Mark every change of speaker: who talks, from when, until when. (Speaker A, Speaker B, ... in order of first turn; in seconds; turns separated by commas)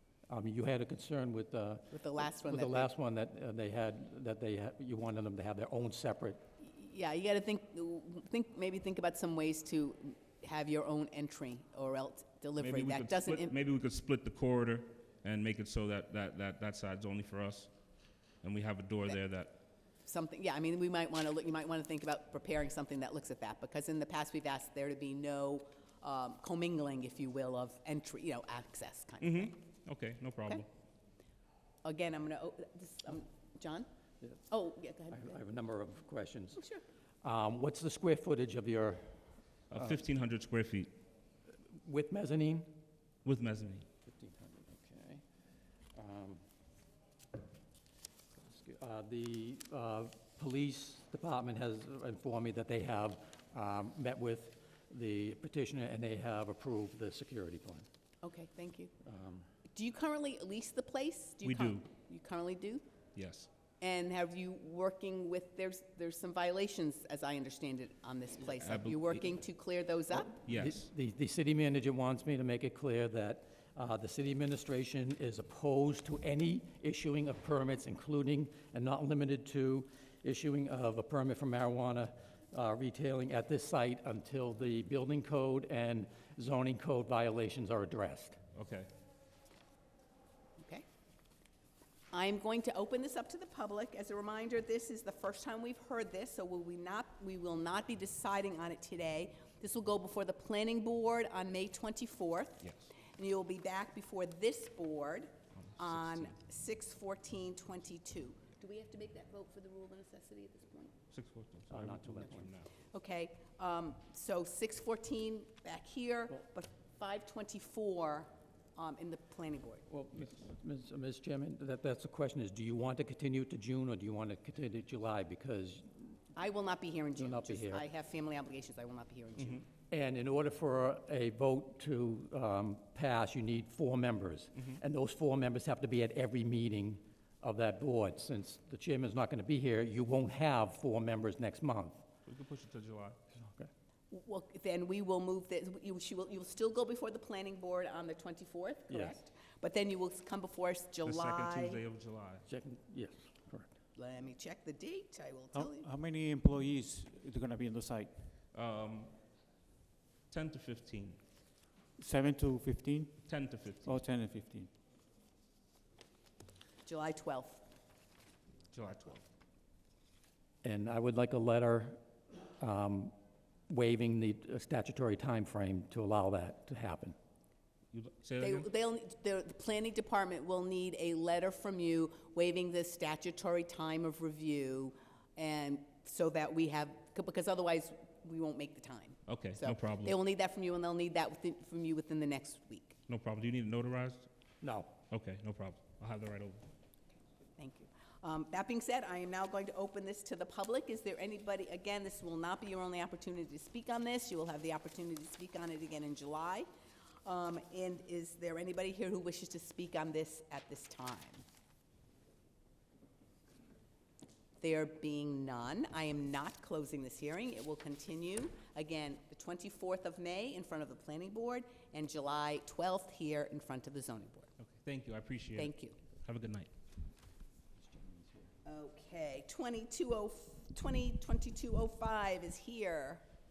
Speaker A: 0.3-6.4, Speaker B: 1.9-2.9, Speaker B: 6.6-13.5, Speaker C: 12.6-17.7, Speaker C: 18.4-19.5, Speaker B: 20.1-29.6, Speaker C: 29.2-30.7, Speaker B: 31.9-33.9, Speaker B: 34.5-35.3, Speaker A: 35.1-36.6, Speaker A: 37.2-39.2, Speaker C: 39.7-40.9, Speaker A: 41.7-42.8, Speaker C: 43.2-43.9, Speaker A: 44.1-45.2, Speaker A: 46.0-46.4, Speaker A: 48.4-57.9, Speaker B: 58.2-58.9, Speaker A: 59.0-59.5, Speaker B: 59.7-62.8, Speaker C: 61.4-61.9, Speaker C: 63.2-63.5, Speaker B: 63.8-70.3, Speaker C: 68.5-69.2, Speaker C: 70.5-70.9, Speaker A: 70.5-88.4, Speaker C: 88.5-88.9, Speaker B: 90.6-90.8, Speaker B: 92.1-110.9, Speaker C: 102.6-102.9, Speaker C: 105.6-106.4, Speaker C: 111.1-112.7, Speaker A: 111.7-112.5, Speaker B: 112.9-119.8, Speaker A: 119.9-126.2, Speaker B: 126.4-129.7, Speaker A: 127.2-127.9, Speaker A: 129.9-142.1, Speaker C: 142.3-143.2, Speaker A: 143.3-143.7, Speaker B: 144.1-151.8, Speaker A: 148.9-149.2, Speaker C: 151.1-152.4, Speaker A: 152.5-153.7, Speaker B: 154.0-155.9, Speaker D: 155.5-158.4, Speaker C: 158.5-159.2, Speaker C: 160.3-161.2, Speaker D: 162.0-164.7, Speaker C: 163.2-164.0, Speaker B: 166.8-167.6, Speaker C: 168.7-169.2, Speaker A: 170.6-172.0, Speaker A: 172.6-173.1, Speaker A: 173.7-177.2, Speaker C: 177.9-178.7, Speaker B: 178.4-193.0, Speaker C: 189.3-190.2, Speaker C: 193.1-194.3, Speaker A: 194.6-194.9, Speaker C: 195.1-196.6, Speaker B: 197.6-206.7, Speaker B: 207.2-211.4, Speaker B: 214.6-224.5, Speaker C: 224.6-226.7, Speaker B: 225.6-226.0, Speaker A: 227.9-228.4, Speaker B: 228.7-233.2